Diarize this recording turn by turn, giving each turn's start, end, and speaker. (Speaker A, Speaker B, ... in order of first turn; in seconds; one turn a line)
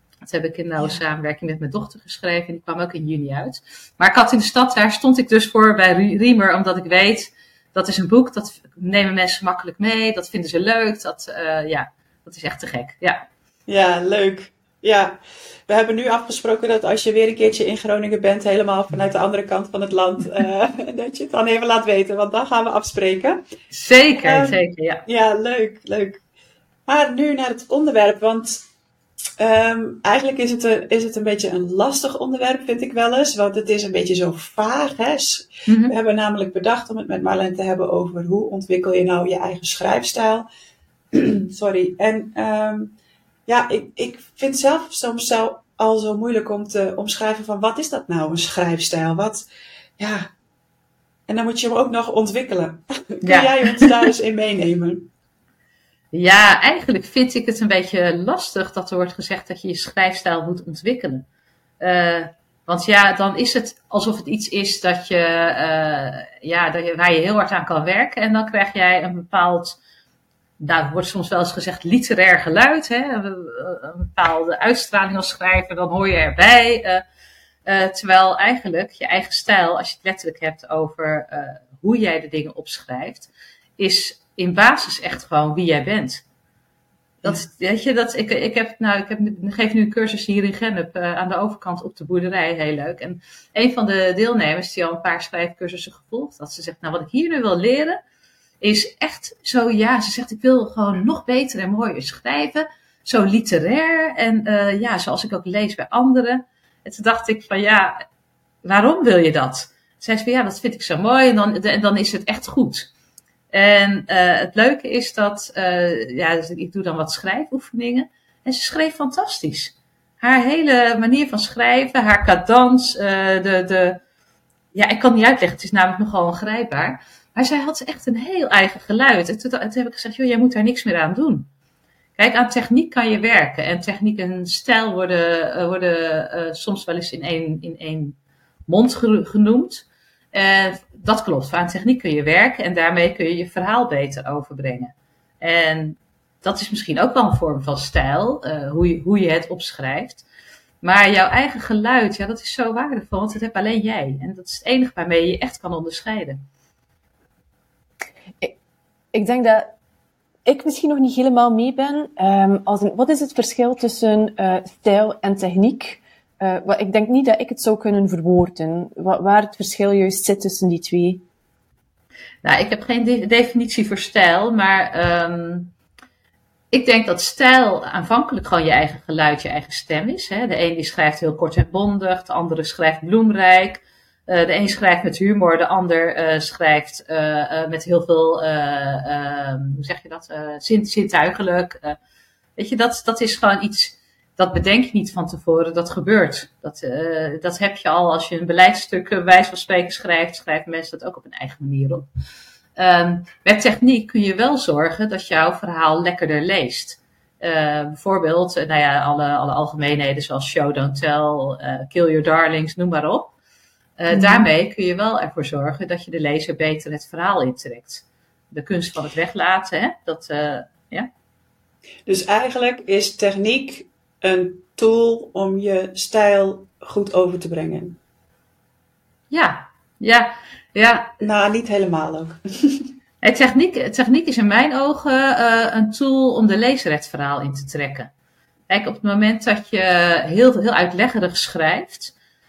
Speaker A: 0.2-13.2
Speaker B: 0.8-1.0
Speaker B: 13.7-23.4
Speaker A: 23.7-25.0
Speaker B: 24.2-26.2
Speaker B: 26.9-28.6
Speaker B: 29.4-40.5
Speaker A: 35.7-35.9
Speaker B: 41.1-42.9
Speaker B: 43.5-50.3
Speaker B: 51.3-55.1
Speaker A: 53.2-53.9
Speaker A: 56.1-61.2
Speaker A: 61.8-69.8
Speaker A: 70.6-77.0
Speaker A: 77.7-86.2
Speaker A: 87.2-98.0
Speaker A: 98.6-108.0
Speaker A: 108.6-112.9
Speaker A: 113.5-124.0
Speaker A: 124.7-131.5
Speaker A: 132.2-138.2
Speaker A: 138.7-150.2
Speaker A: 150.8-156.4
Speaker C: 159.1-159.7
Speaker C: 160.4-171.2
Speaker A: 172.4-175.7
Speaker A: 176.7-192.0
Speaker A: 192.6-202.1
Speaker A: 202.8-213.3
Speaker A: 214.0-221.1
Speaker C: 214.1-214.4
Speaker B: 222.1-228.0
Speaker A: 229.3-231.1
Speaker B: 231.2-232.9
Speaker A: 233.2-238.1
Speaker A: 238.7-242.1